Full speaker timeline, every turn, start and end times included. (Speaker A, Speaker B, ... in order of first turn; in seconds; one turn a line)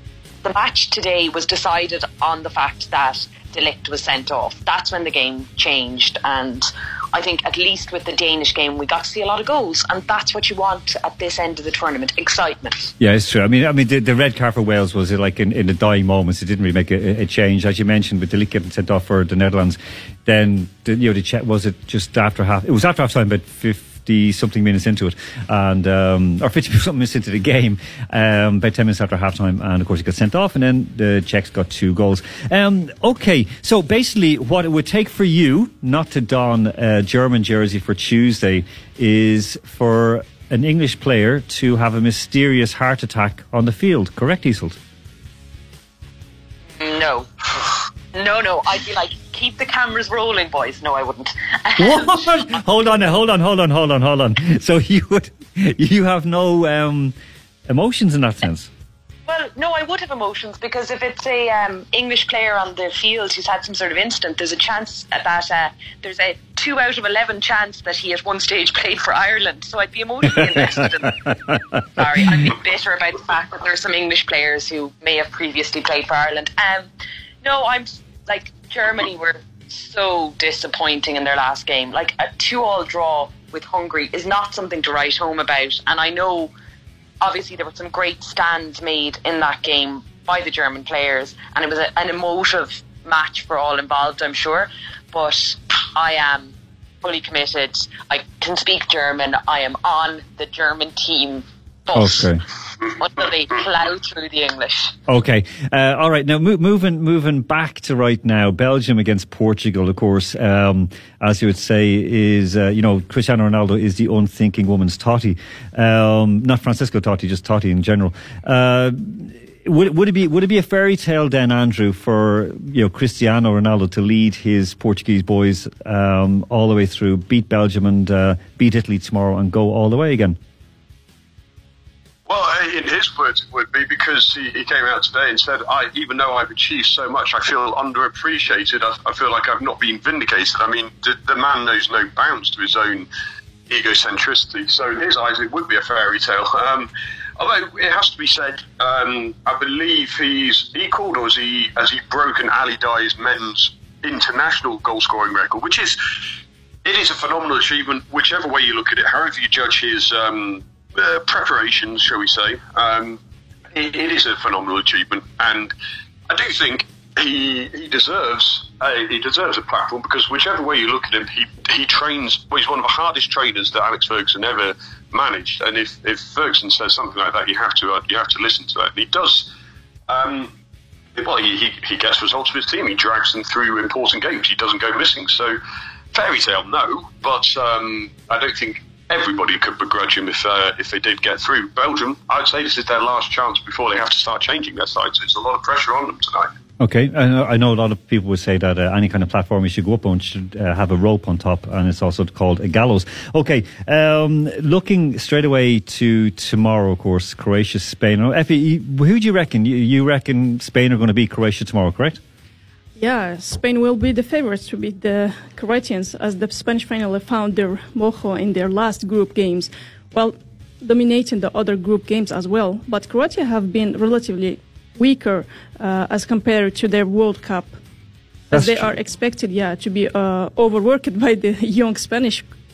Speaker A: 0.4-12.9
Speaker B: 13.0-44.8
Speaker A: 46.8-52.3
Speaker B: 51.8-57.1
Speaker B: 57.7-58.7
Speaker A: 59.3-76.9
Speaker A: 77.4-86.5
Speaker A: 87.2-102.3
Speaker B: 101.9-102.4
Speaker A: 102.9-104.9
Speaker B: 105.1-130.4
Speaker C: 132.3-143.1
Speaker C: 143.7-156.0
Speaker C: 156.8-163.2
Speaker C: 163.7-165.7
Speaker C: 166.3-179.5
Speaker C: 180.1-180.5
Speaker C: 181.1-185.6
Speaker C: 186.1-196.5
Speaker B: 196.8-212.2
Speaker D: 212.9-227.8
Speaker D: 228.5-232.5
Speaker B: 228.5-228.9